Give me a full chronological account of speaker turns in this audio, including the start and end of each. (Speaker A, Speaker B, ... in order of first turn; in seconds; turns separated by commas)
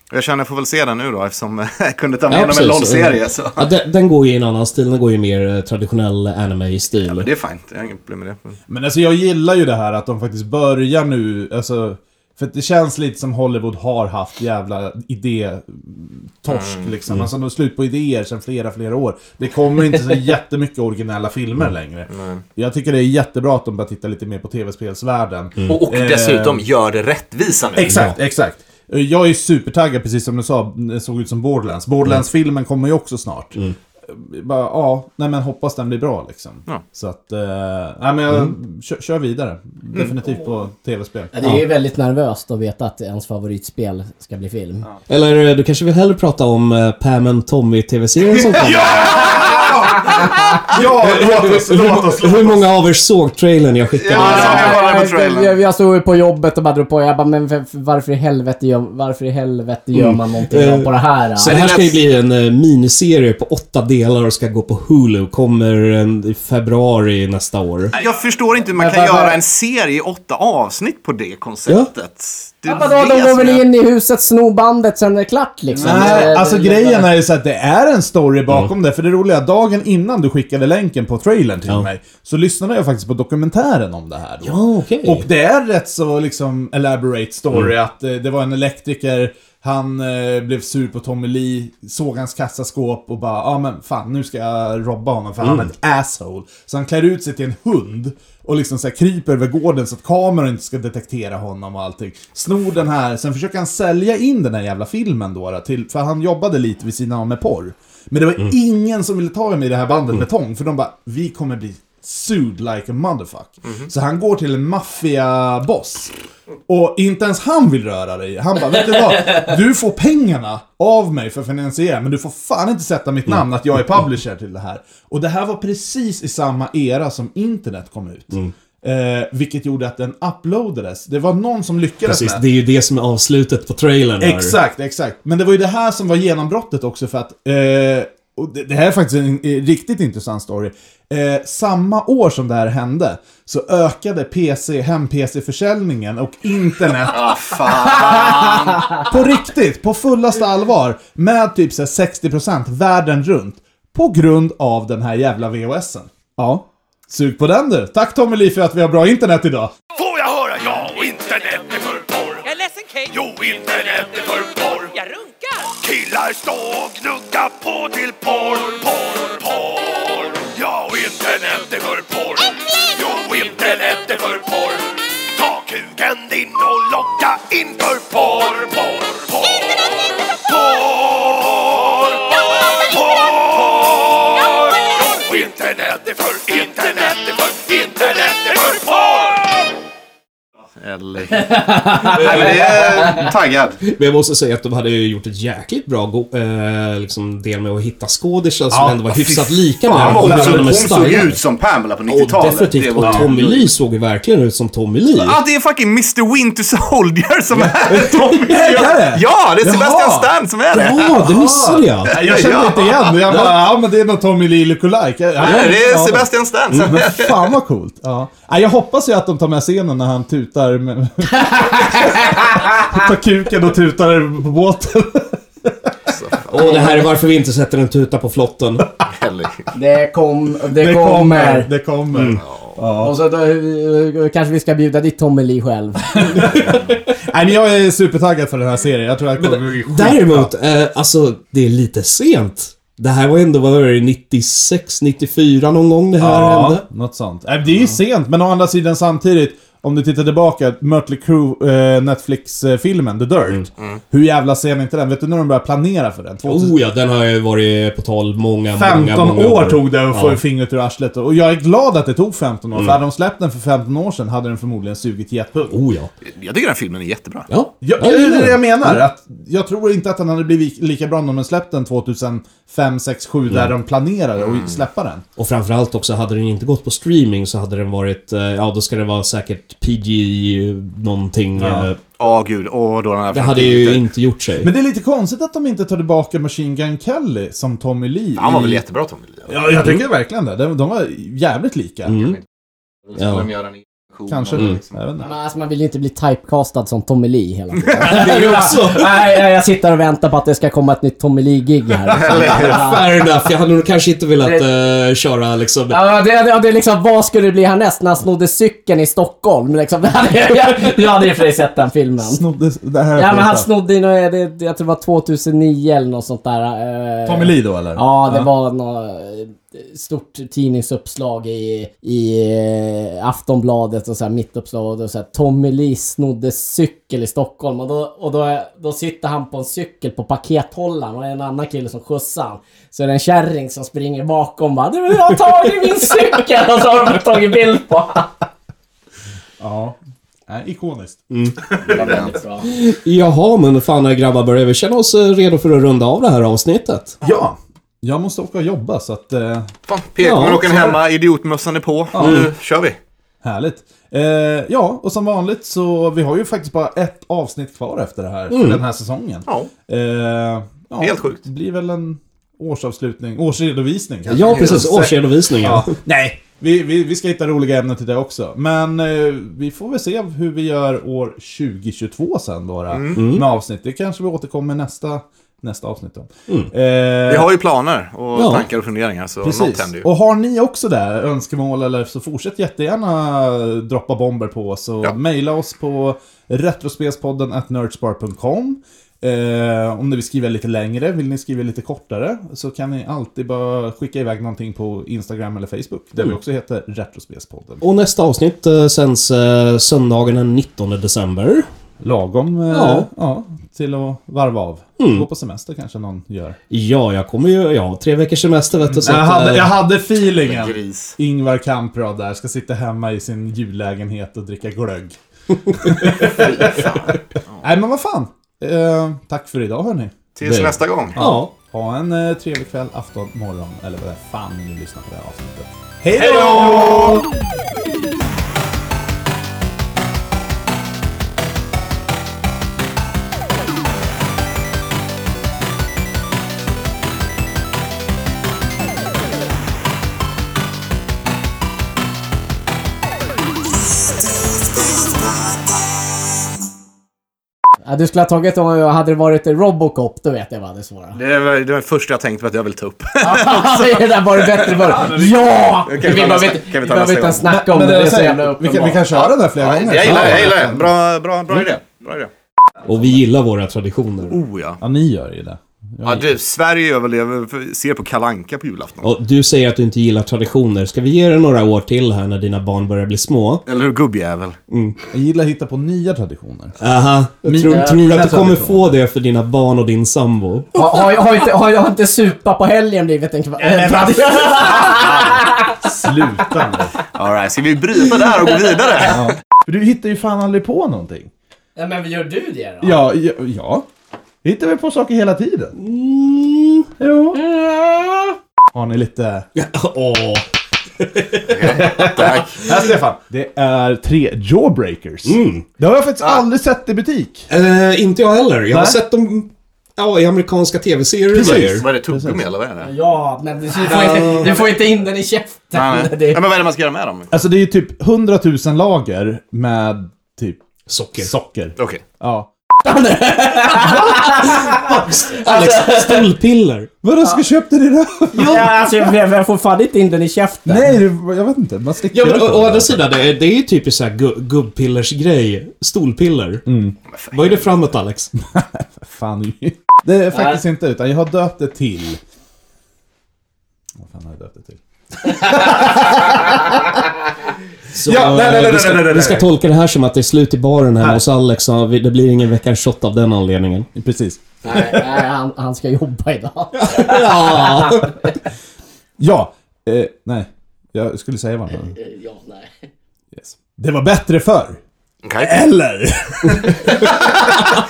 Speaker A: 0.1-3.7, Speaker B: 2.3-7.3, Speaker A: 7.0-8.6, Speaker C: 8.7-26.6, Speaker A: 16.5-16.9, Speaker A: 22.1-22.4, Speaker A: 25.7-28.0, Speaker C: 27.8-41.4, Speaker B: 27.9-28.1, Speaker D: 41.3-44.9, Speaker B: 45.1-49.2, Speaker A: 48.6-49.7, Speaker C: 48.6-52.6, Speaker B: 50.7-54.7, Speaker A: 54.0-55.6, Speaker D: 54.1-61.5, Speaker B: 59.9-67.9, Speaker A: 61.5-61.9, Speaker A: 67.9-73.7, Speaker D: 68.6-69.4, Speaker D: 72.7-77.1, Speaker C: 75.8-116.1, Speaker A: 75.9-76.2, Speaker B: 84.4-85.3, Speaker B: 95.4-95.7, Speaker C: 116.7-132.4, Speaker B: 132.1-134.6, Speaker C: 134.2-159.7, Speaker A: 147.1-149.1, Speaker E: 159.9-189.6, Speaker A: 190.8-193.8, Speaker D: 191.4-192.5, Speaker B: 193.8-201.4, Speaker C: 198.7-199.3, Speaker A: 199.1-203.7, Speaker C: 199.8-201.0, Speaker B: 202.1-205.4, Speaker C: 203.0-203.3, Speaker A: 205.1-211.2, Speaker C: 207.5-210.3, Speaker B: 210.7-212.2, Speaker C: 211.2-216.3, Speaker A: 212.1-213.2, Speaker A: 215.4-217.5, Speaker C: 216.8-225.9, Speaker D: 221.5-222.3, Speaker A: 226.1-226.8, Speaker B: 226.5-228.9, Speaker A: 229.1-229.7, Speaker D: 229.7-231.7, Speaker C: 230.7-233.2, Speaker B: 232.1-232.4, Speaker A: 232.4-232.8, Speaker D: 232.9-236.8, Speaker C: 236.2-240.5, Speaker B: 239.4-246.8, Speaker C: 246.2-256.8, Speaker B: 256.4-260.4, Speaker C: 258.7-265.8, Speaker B: 265.7-266.1, Speaker A: 266.2-267.5, Speaker B: 267.5-269.0, Speaker C: 267.8-275.2, Speaker A: 274.4-274.8, Speaker B: 275.4-282.0, Speaker C: 281.6-281.9, Speaker A: 282.2-284.0, Speaker B: 283.3-284.7, Speaker C: 284.6-288.8, Speaker A: 288.4-289.5, Speaker C: 289.5-292.2, Speaker B: 292.1-292.4, Speaker A: 293.1-294.9, Speaker B: 293.2-293.5, Speaker C: 294.3-295.3, Speaker B: 294.6-294.8, Speaker D: 295.2-303.0, Speaker B: 298.0-299.4, Speaker A: 302.1-302.9, Speaker B: 302.5-306.0, Speaker D: 304.4-304.7, Speaker D: 305.9-312.4, Speaker C: 312.2-313.7, Speaker D: 313.1-338.3, Speaker C: 317.2-318.5, Speaker C: 339.6-341.3, Speaker B: 341.3-341.6, Speaker A: 341.6-342.4, Speaker D: 341.9-342.7, Speaker B: 342.6-347.2, Speaker C: 347.2-349.7, Speaker A: 349.9-353.0, Speaker B: 350.2-350.8, Speaker C: 350.7-351.0, Speaker C: 352.1-352.5, Speaker B: 352.2-352.5, Speaker C: 353.4-377.5, Speaker B: 358.5-358.8, Speaker A: 361.0-361.4, Speaker B: 364.3-366.0, Speaker A: 364.6-364.9, Speaker A: 372.9-373.2, Speaker B: 373.1-373.4, Speaker A: 377.3-380.1, Speaker B: 378.4-378.7, Speaker C: 379.4-397.8, Speaker B: 397.8-401.7, Speaker C: 402.0-406.6, Speaker B: 402.7-403.1, Speaker B: 405.0-405.3, Speaker B: 406.7-409.8, Speaker C: 408.8-420.1, Speaker A: 410.4-411.1, Speaker B: 415.7-416.4, Speaker A: 416.4-417.6, Speaker A: 420.4-421.2, Speaker B: 420.4-421.5, Speaker C: 421.2-427.3, Speaker A: 426.1-427.2, Speaker D: 447.9-451.2, Speaker A: 451.1-454.1, Speaker D: 453.2-459.0, Speaker A: 454.6-455.2, Speaker C: 454.6-455.6, Speaker A: 455.9-457.5, Speaker C: 457.4-460.9, Speaker A: 459.1-462.3, Speaker B: 460.0-460.5, Speaker B: 462.9-464.4, Speaker A: 464.3-464.8, Speaker C: 464.8-466.3, Speaker A: 466.0-469.1, Speaker B: 469.0-473.6, Speaker A: 473.7-474.6, Speaker B: 474.7-475.0, Speaker C: 475.1-476.8, Speaker B: 476.8-480.8, Speaker C: 477.4-478.9, Speaker D: 480.8-485.8, Speaker C: 483.6-486.9, Speaker A: 487.1-489.2, Speaker C: 489.0-491.3, Speaker D: 491.8-493.0, Speaker C: 492.8-493.9, Speaker C: 494.4-495.8, Speaker B: 495.8-496.9, Speaker C: 497.0-497.4, Speaker D: 497.3-498.4, Speaker C: 498.7-499.5, Speaker B: 499.6-500.4, Speaker B: 501.0-502.1, Speaker A: 501.5-502.7, Speaker C: 501.6-507.5, Speaker B: 505.2-505.7, Speaker B: 507.5-511.9, Speaker C: 508.7-509.0, Speaker C: 511.3-512.5, Speaker A: 511.4-512.9, Speaker D: 512.8-516.4, Speaker B: 513.8-514.6, Speaker A: 515.7-517.4, Speaker C: 517.3-520.6, Speaker B: 520.9-521.3, Speaker C: 521.2-522.5, Speaker D: 522.8-526.3, Speaker B: 524.0-526.9, Speaker C: 527.0-529.1, Speaker D: 528.3-531.0, Speaker C: 530.6-533.0, Speaker B: 532.1-536.7, Speaker C: 536.7-537.0, Speaker A: 537.1-537.7, Speaker B: 537.3-538.3, Speaker C: 538.4-542.2, Speaker D: 540.3-540.6, Speaker C: 544.0-547.0, Speaker B: 547.9-553.9, Speaker C: 548.0-549.5, Speaker C: 554.0-555.1, Speaker D: 554.6-558.3, Speaker B: 556.7-558.3, Speaker C: 559.2-562.0, Speaker D: 561.9-562.9, Speaker C: 563.3-564.8, Speaker A: 565.2-565.6, Speaker C: 565.4-567.4, Speaker A: 566.7-567.6